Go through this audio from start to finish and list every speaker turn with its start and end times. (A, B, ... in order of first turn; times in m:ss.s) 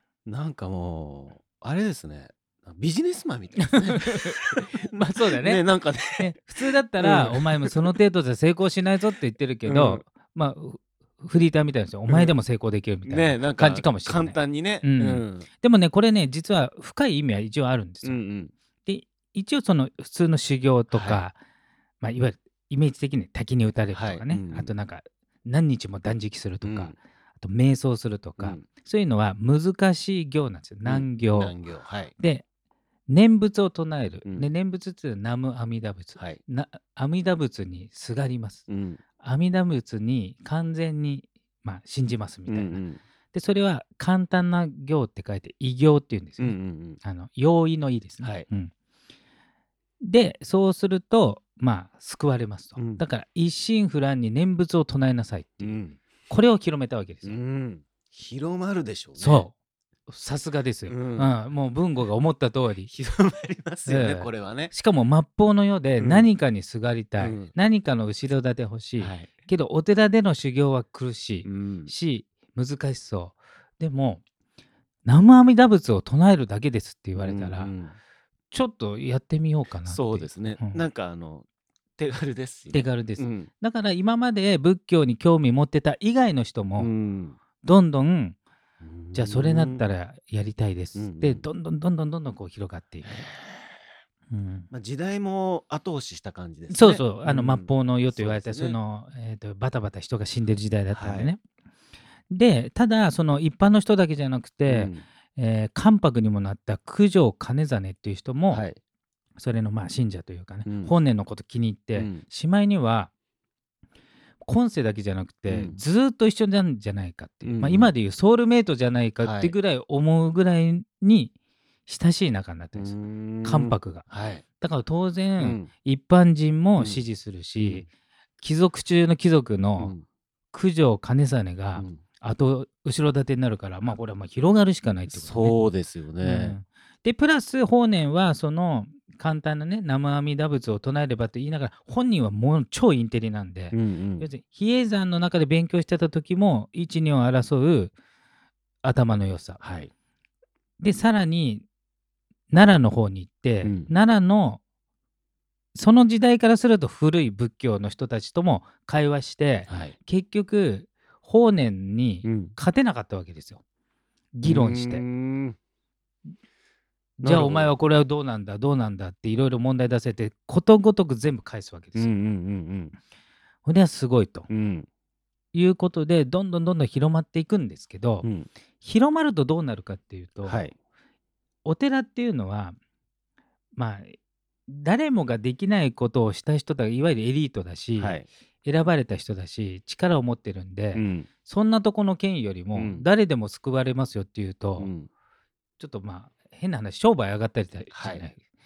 0:00.3-0:06.4 A
0:03.7-0:05.6 B
0:06.2-0:18.2 B
0:07.0-0:07.8 A
0:09.6-0:10.0 A
0:13.1-0:15.5 A
0:18.0-0:18.5 A
0:18.8-0:21.4 B
0:20.9-0:21.2 A
0:22.0-0:31.6 B
0:23.9-0:24.7 A
0:26.6-0:27.0 A
0:30.8-0:32.1 A
0:32.2-0:32.4 B
0:33.1-0:38.7 B
0:38.7-0:39.0 A
0:39.2-0:42.8 B
0:42.5-0:43.0 A
0:43.3-0:48.7 B
0:46.4-0:47.0 A
0:48.2-0:48.5 A
0:50.0-0:57.4 B
0:52.8-0:53.0 A
0:55.6-0:56.0 A
0:57.2-0:59.5 A
0:59.2-0:59.5 B
1:00.1-1:02.9 B
1:00.9-1:01.3 A
1:02.9-1:04.7 A
1:03.9-1:14.2 B
1:06.0-1:06.3 A
1:07.2-1:07.5 A
1:09.0-1:09.3 A
1:11.4-1:11.9 A
1:15.0-1:17.7 B
1:17.2-1:18.0 A
1:18.5-1:20.8 B
1:19.9-1:21.5 A
1:22.0-1:23.5 A
1:22.7-1:26.9 B
1:26.8-1:27.4 A
1:27.6-1:28.4 B
1:28.8-1:29.8 A
1:29.1-1:33.2 B
1:31.0-1:31.5 A
1:33.1-1:33.8 A
1:34.3-1:34.7 B
1:34.7-1:38.8 A
1:36.7-1:41.4 B
1:40.9-1:41.3 A
1:42.3-1:48.6 B
1:44.7-1:45.0 A
1:48.5-1:48.8 A
1:49.4-1:53.1 B
1:50.7-1:50.9 A
1:52.0-1:52.2 A
1:54.4-2:01.3 B
1:55.5-1:55.8 A
1:57.4-1:57.9 A
1:59.2-1:59.6 A
2:01.9-2:04.1 B
2:02.8-2:04.4 A
2:04.6-2:07.9 B
2:05.4-2:05.7 A
2:07.6-2:07.9 A
2:08.4-2:09.9 B
2:09.8-2:10.0 A
2:10.5-2:15.6 B
2:11.8-2:12.0 A
2:15.1-2:16.6 A
2:16.2-2:27.9 B
2:23.7-2:24.3 A
2:28.8-2:29.6 B
2:29.6-2:29.9 A
2:30.8-2:31.6 B
2:32.5-2:34.6 B
2:33.6-2:33.9 A
2:35.8-2:43.6 B
2:39.7-2:40.0 A
2:42.2-2:42.5 A
2:44.4-2:45.0 B
2:44.5-2:45.6 A
2:47.2-2:47.7 A
2:47.2-2:52.1 B
2:52.0-2:53.0 A
2:53.6-2:54.5 B
2:54.5-2:54.9 A
2:55.5-2:58.3 B
2:58.2-2:58.5 A
2:58.8-3:00.6 B
3:00.4-3:00.7 A
3:01.6-3:02.8 B
3:03.8-3:04.2 B
3:04.7-3:14.9 B
3:08.0-3:08.3 A
3:11.0-3:11.3 A
3:12.7-3:13.0 A
3:14.8-3:15.1 A
3:15.8-3:18.4 B
3:17.9-3:18.3 A